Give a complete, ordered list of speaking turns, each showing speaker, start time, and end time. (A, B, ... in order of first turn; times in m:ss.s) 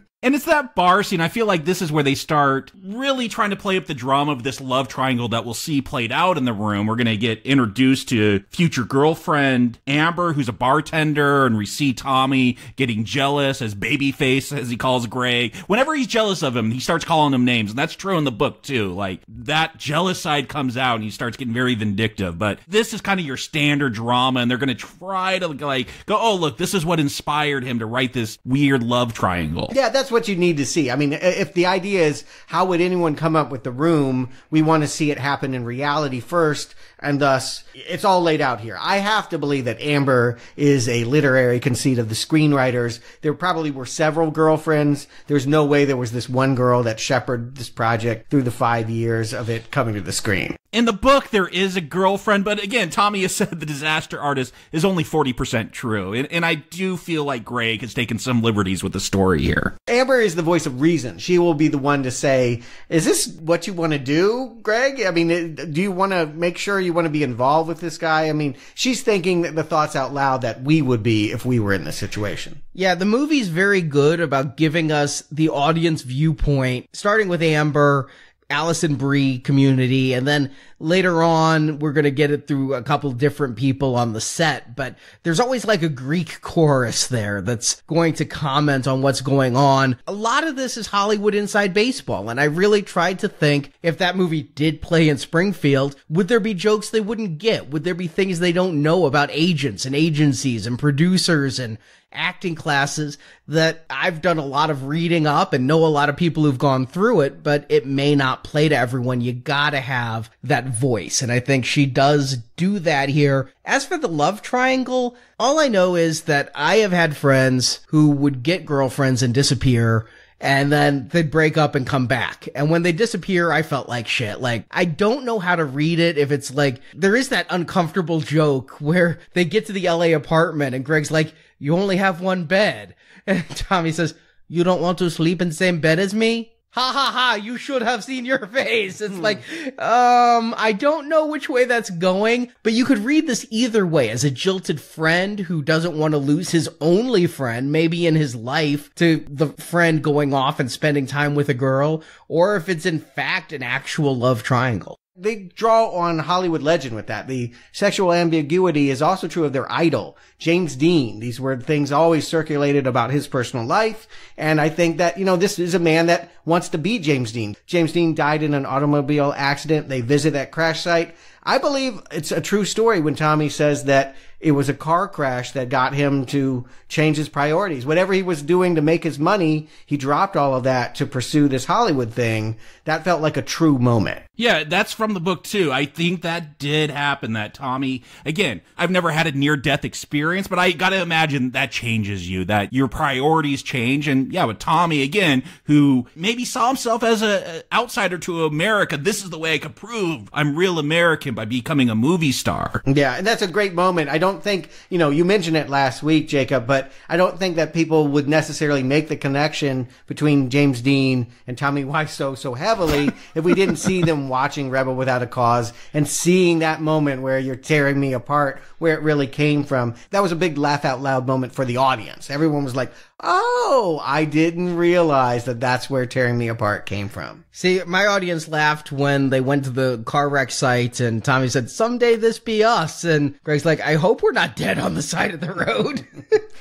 0:00.2-0:29.7 A
0:29.7-0:50.6 B
0:50.7-0:59.7 A
0:59.9-1:12.6 B
1:12.7-2:35.0 C
2:19.1-2:19.4 B
2:35.2-3:04.2 B
3:04.4-3:22.8 A
3:22.8-3:47.4 B
3:47.5-3:56.4 C